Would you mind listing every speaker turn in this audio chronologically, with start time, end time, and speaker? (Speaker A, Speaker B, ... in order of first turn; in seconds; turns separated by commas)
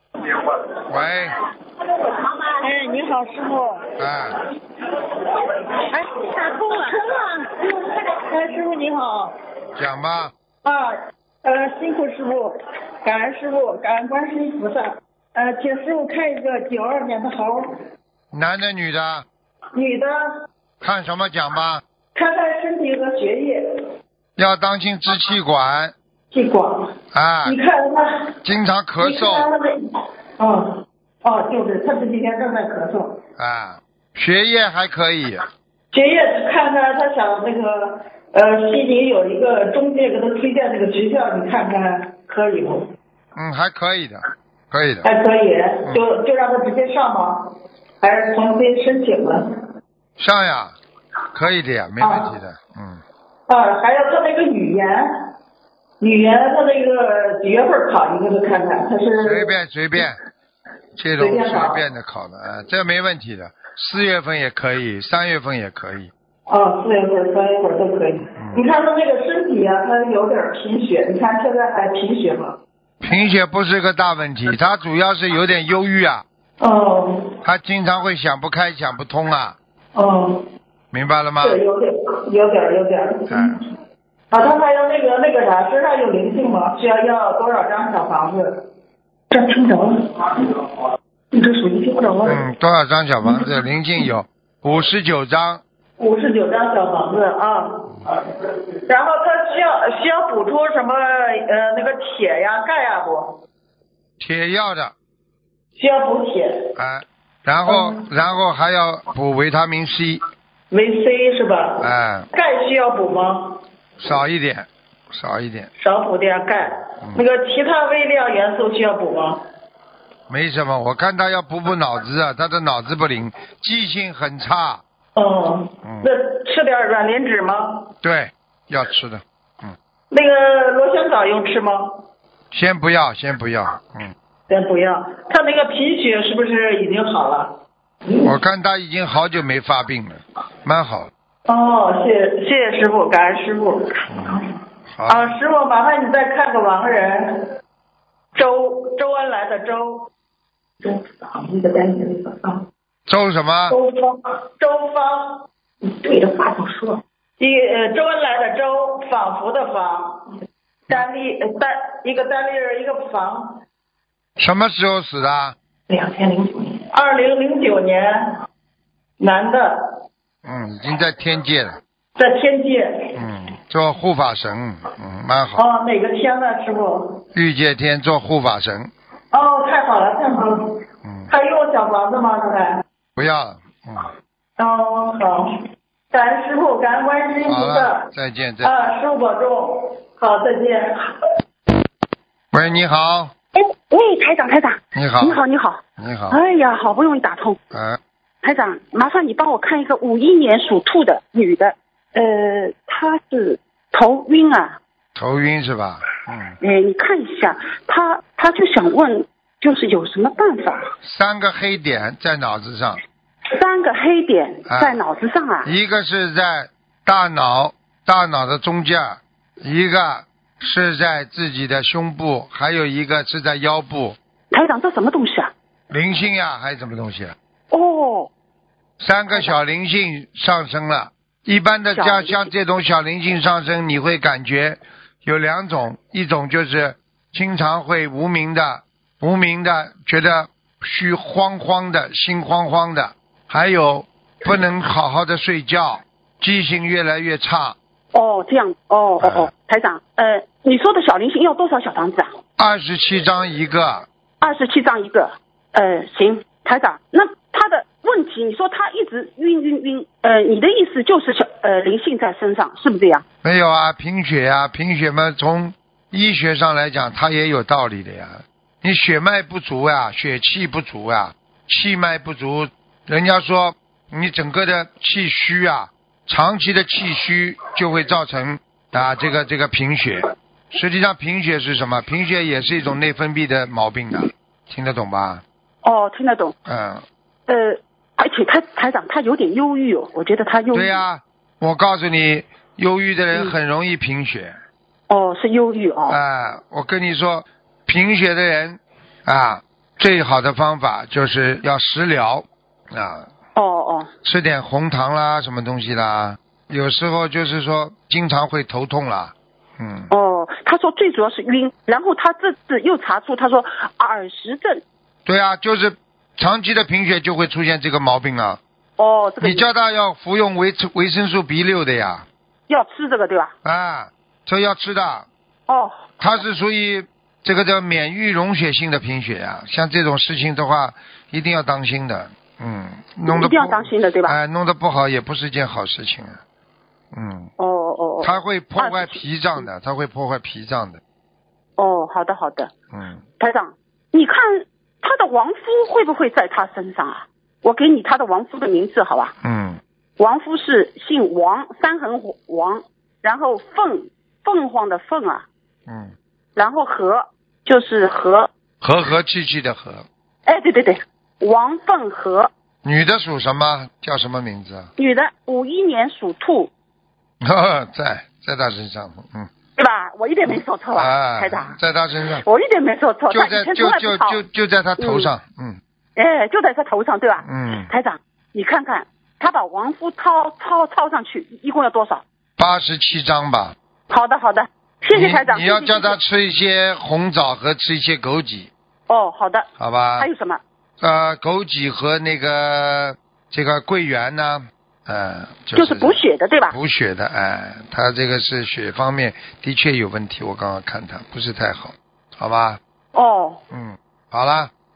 Speaker A: 0.9-1.4, Speaker B: 2.4-3.8, Speaker A: 4.0-4.3, Speaker B: 5.8-9.3, Speaker A: 9.8-10.3, Speaker B: 10.6-10.9, Speaker B: 11.4-12.5, Speaker B: 13.0-17.7, Speaker A: 18.3-19.2, Speaker B: 19.7-20.2, Speaker A: 20.8-21.8, Speaker B: 22.1-23.6, Speaker A: 24.4-25.9, Speaker B: 26.3-26.9, Speaker A: 27.1-27.6, Speaker B: 27.4-28.3, Speaker A: 28.4-29.5, Speaker B: 29.0-29.8, Speaker B: 30.4-33.2, Speaker A: 33.4-35.5, Speaker B: 35.9-42.9, Speaker A: 43.3-45.1, Speaker B: 45.0-49.4, Speaker A: 50.2-50.8, Speaker A: 51.3-53.0, Speaker B: 52.0-52.3, Speaker B: 53.5-55.1, Speaker B: 56.0-59.5, Speaker A: 59.2-60.2, Speaker A: 61.0-66.1, Speaker B: 61.2-61.8, Speaker B: 66.5-72.6, Speaker A: 68.3-68.7, Speaker A: 73.0-76.2, Speaker B: 76.6-77.3, Speaker A: 77.4-79.6, Speaker B: 79.9-80.4, Speaker A: 80.9-81.6, Speaker B: 81.4-83.6, Speaker A: 83.3-83.6, Speaker B: 84.3-88.6, Speaker B: 89.3-90.5, Speaker B: 91.3-92.4, Speaker A: 92.2-95.6, Speaker B: 93.2-93.5, Speaker B: 96.0-97.9, Speaker B: 98.4-103.4, Speaker A: 104.2-104.9, Speaker B: 105.8-106.5, Speaker A: 106.8-110.2, Speaker B: 107.7-108.0, Speaker B: 110.7-113.6, Speaker A: 111.8-112.3, Speaker A: 114.0-115.7, Speaker B: 115.8-119.4, Speaker A: 120.3-124.8, Speaker B: 125.2-127.9, Speaker A: 125.8-126.1, Speaker A: 128.0-129.7, Speaker B: 130.1-132.0, Speaker A: 132.5-134.1, Speaker B: 134.5-137.5, Speaker A: 138.2-141.1, Speaker B: 141.4-144.4, Speaker A: 144.1-145.4, Speaker B: 145.1-147.5, Speaker B: 148.3-150.1, Speaker B: 150.8-152.6, Speaker A: 153.1-153.8, Speaker B: 153.7-160.2, Speaker B: 160.9-163.6, Speaker A: 164.4-165.6, Speaker B: 165.9-168.1, Speaker B: 169.2-170.0, Speaker A: 170.4-171.8, Speaker B: 172.2-173.1, Speaker A: 173.2-175.6, Speaker B: 175.6-177.2, Speaker A: 177.3-178.9, Speaker B: 179.3-180.7, Speaker A: 181.0-181.3, Speaker B: 181.3-182.8, Speaker A: 183.2-184.1, Speaker B: 184.6-185.5, Speaker B: 186.1-188.0, Speaker A: 187.4-188.9, Speaker B: 188.6-191.1, Speaker A: 192.5-193.3, Speaker C: 193.6-197.6, Speaker A: 194.9-195.4, Speaker A: 196.0-196.4, Speaker A: 197.7-198.0, Speaker C: 198.4-204.8, Speaker A: 205.2-206.5, Speaker C: 206.6-210.9, Speaker A: 211.0-213.0, Speaker C: 213.5-215.7, Speaker A: 214.7-215.0, Speaker A: 215.6-224.2, Speaker C: 224.5-225.5, Speaker A: 225.9-227.3, Speaker C: 227.7-228.3, Speaker A: 229.0-247.8, Speaker C: 231.9-232.4, Speaker C: 248.1-252.3, Speaker A: 249.2-249.5, Speaker A: 252.6-254.1, Speaker C: 254.4-263.2, Speaker A: 263.4-285.4, Speaker C: 285.8-286.5, Speaker A: 286.6-287.0, Speaker C: 287.5-291.0, Speaker A: 290.7-294.5, Speaker C: 295.1-296.2, Speaker A: 296.1-303.3, Speaker C: 303.6-304.1, Speaker A: 304.2-310.1, Speaker C: 310.1-314.8, Speaker A: 315.2-318.6, Speaker C: 319.0-319.7, Speaker A: 319.4-322.2, Speaker C: 322.7-323.5, Speaker A: 323.6-325.3, Speaker C: 325.7-326.4, Speaker A: 326.2-336.4, Speaker C: 333.2-334.4, Speaker A: 337.1-337.5, Speaker C: 337.6-339.6, Speaker A: 338.2-341.0, Speaker C: 341.8-342.7, Speaker A: 342.9-343.2, Speaker C: 343.4-349.3, Speaker A: 349.4-349.8, Speaker C: 350.2-355.4, Speaker A: 355.9-356.1, Speaker C: 356.6-358.5, Speaker A: 358.8-360.0, Speaker C: 360.4-362.5, Speaker A: 362.8-364.9, Speaker C: 365.0-366.7, Speaker A: 367.4-369.5, Speaker C: 369.8-374.4, Speaker A: 370.9-372.4, Speaker A: 373.3-375.8, Speaker C: 375.0-375.3, Speaker C: 376.1-382.2, Speaker A: 377.4-377.9, Speaker A: 382.6-383.7, Speaker C: 384.1-386.2, Speaker A: 385.1-388.7, Speaker C: 389.1-390.6, Speaker A: 389.8-390.3, Speaker A: 391.0-402.8, Speaker C: 395.7-396.8, Speaker C: 403.1-403.6, Speaker A: 403.7-404.7